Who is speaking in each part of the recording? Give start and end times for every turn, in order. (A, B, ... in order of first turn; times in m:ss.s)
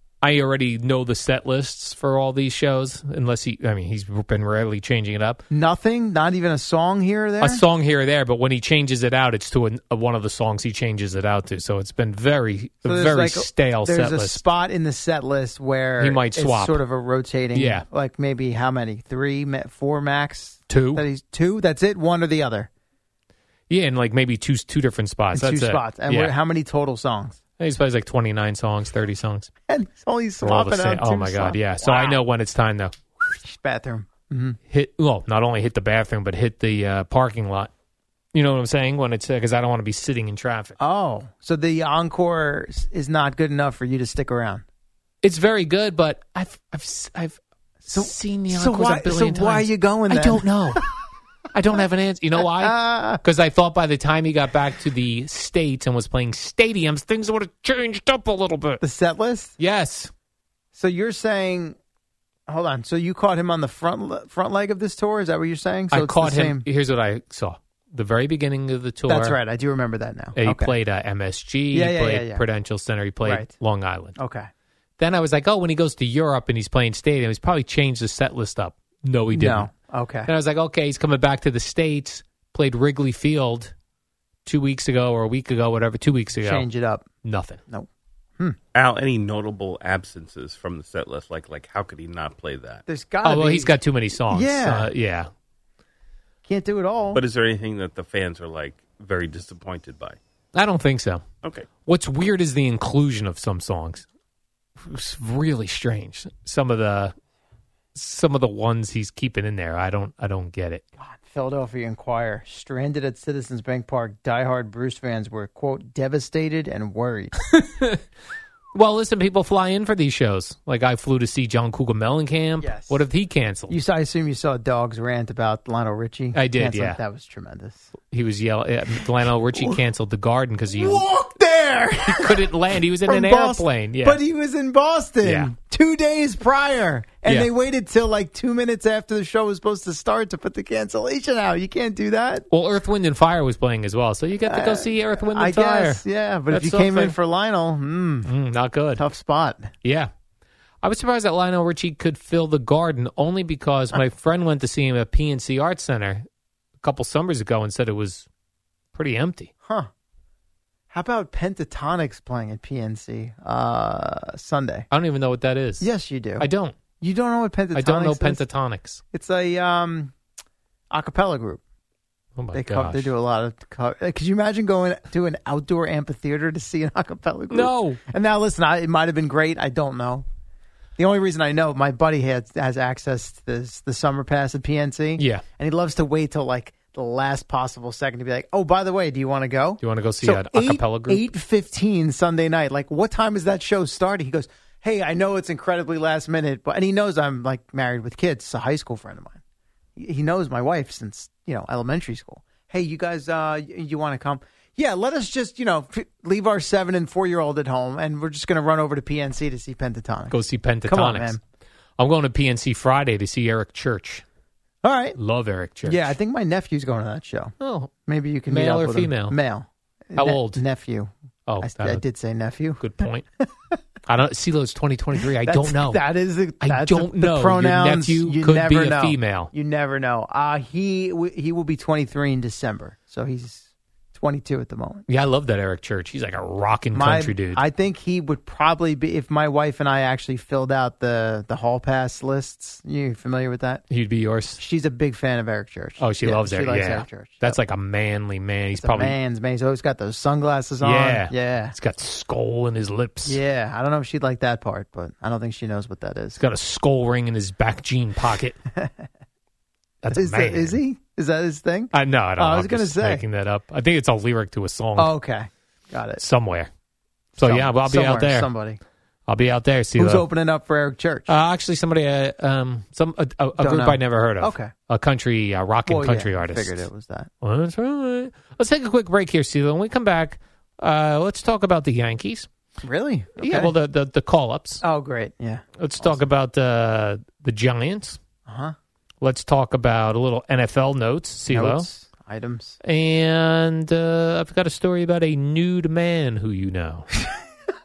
0:00.2-0:05.4 A
0:05.5-0:07.6 B
0:07.4-0:14.4 A
0:12.8-0:22.7 B
0:16.0-0:16.8 A
0:17.5-0:17.8 A
0:20.7-0:21.1 A
0:23.7-0:26.3 A
0:25.3-0:27.4 B
0:27.6-0:29.5 A
0:29.7-0:32.2 B
0:30.4-0:32.9 A
0:33.3-0:34.6 B
0:34.7-0:37.7 A
0:38.3-0:40.8 A
0:40.8-0:44.6 B
0:45.2-0:50.8 A
0:47.9-0:50.9 B
0:51.5-0:58.8 A
0:52.4-0:53.2 B
0:58.8-0:59.6 B
0:59.6-1:00.1 A
1:00.7-1:01.8 B
1:02.5-1:06.7 B
1:05.9-1:09.4 A
1:09.1-1:10.8 B
1:10.4-1:14.1 A
1:11.7-1:12.4 B
1:13.2-1:13.5 B
1:14.2-1:14.5 B
1:15.0-1:19.7 A
1:19.3-1:20.3 B
1:20.2-1:23.7 A
1:24.4-1:26.7 A
1:26.4-1:27.1 B
1:27.2-1:27.6 A
1:28.8-1:32.8 C
1:32.9-1:34.9 B
1:33.2-1:35.3 A
1:36.4-1:37.2 B
1:37.1-1:40.2 C
1:40.5-1:41.2 A
1:41.8-1:44.0 A
1:44.9-1:47.1 A
1:47.9-1:50.8 A
1:51.0-1:57.3 B
1:57.5-1:58.0 A
1:58.8-2:03.8 A
2:02.6-2:03.0 B
2:03.7-2:07.8 B
2:06.3-2:07.0 A
2:08.1-2:11.0 A
2:09.5-2:09.8 B
2:10.8-2:12.5 B
2:12.0-2:14.2 A
2:13.0-2:22.5 B
2:15.2-2:15.5 A
2:17.2-2:17.5 A
2:22.5-2:27.2 A
2:24.4-2:28.3 B
2:28.2-2:29.0 A
2:29.0-2:29.7 B
2:29.8-2:30.1 A
2:30.8-2:36.2 A
2:36.8-2:38.3 A
2:38.9-2:39.5 A
2:39.6-2:39.9 B
2:40.9-2:44.9 B
2:44.9-2:46.8 A
2:45.8-2:46.5 B
2:47.0-2:48.4 B
2:47.7-2:49.0 A
2:49.1-2:50.1 B
2:50.9-2:51.6 B
2:52.4-2:53.1 A
2:52.5-3:00.2 B
2:57.5-2:58.0 A
3:01.0-3:19.4 B
3:05.2-3:05.4 A
3:09.8-3:11.2 A
3:20.0-3:31.4 B
3:30.3-3:31.4 A
3:32.0-3:34.2 A
3:34.8-3:35.2 B
3:35.1-3:36.1 A
3:35.8-3:37.5 B
3:37.6-3:37.9 A
3:38.0-3:41.1 B
3:38.5-3:39.4 A
3:40.2-3:40.6 A
3:41.5-3:42.0 A
3:41.6-3:43.7 B
3:42.8-3:43.2 A
3:44.0-3:46.0 A
3:45.2-3:55.1 B
3:46.6-3:49.5 A
3:55.1-3:57.6 A
3:56.9-4:03.8 B
4:03.9-4:04.6 A
4:04.6-4:07.6 B
4:06.0-4:09.2 A
4:08.8-4:11.8 B
4:10.8-4:13.4 A
4:13.2-4:16.4 B
4:16.4-4:18.6 A
4:18.8-4:19.0 B
4:20.0-4:20.8 A
4:20.1-4:23.2 B
4:21.9-4:25.1 A
4:25.0-4:26.2 B
4:26.2-4:26.7 A
4:27.4-4:28.8 B
4:27.4-4:28.5 A
4:29.3-4:30.2 A
4:30.0-4:31.3 B
4:31.3-4:36.9 A
4:33.6-4:34.7 B
4:35.9-4:37.3 B
4:37.4-4:42.5 A
4:42.8-4:43.7 B
4:43.4-4:44.8 A
4:44.8-4:46.2 B
4:45.8-4:48.2 A
4:48.4-4:48.8 B
4:49.2-4:51.9 A
4:51.5-4:52.8 B
4:52.8-4:57.1 A